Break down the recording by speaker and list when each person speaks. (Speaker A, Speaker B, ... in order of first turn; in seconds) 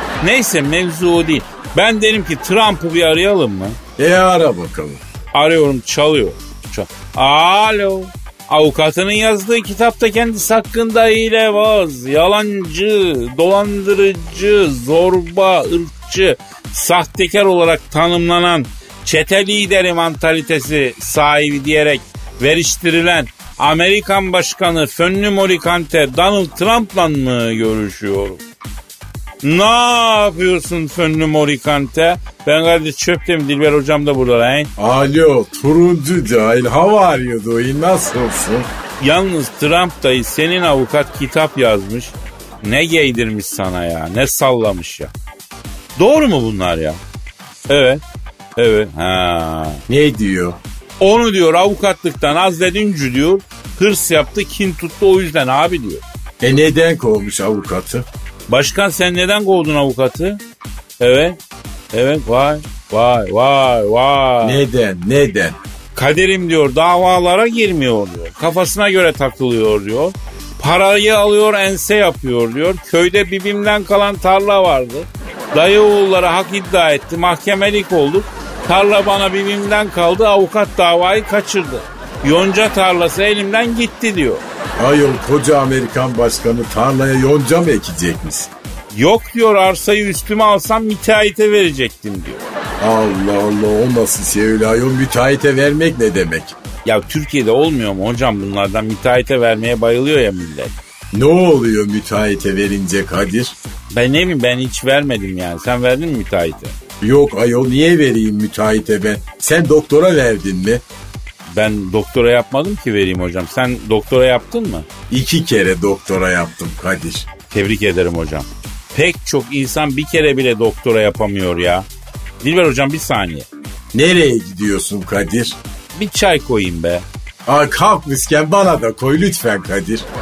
Speaker A: 0.2-3.8, 5.3-28.4, 29.4-34.7, 39.0-45.1, 46.0-47.0, 47.7-48.0, 48.5-49.8, 51.0-56.0, 58.5-60.4, 61.0-61.4, 61.9-64.6, 65.9-84.4, 88.9-92.4, 96.8-100.7, 103.9-106.8, 111.5-114.9, 117.5-121.9, 122.4-123.5, 125.9-127.0
Speaker B: 4.0-5.0, 34.8-38.7, 49.9-50.6, 56.4-58.1, 64.4-65.6, 84.8-88.5, 92.8-96.5, 101.1-103.5, 107.0-110.8, 115.1-117.3, 123.9-125.6, 127.5-130.1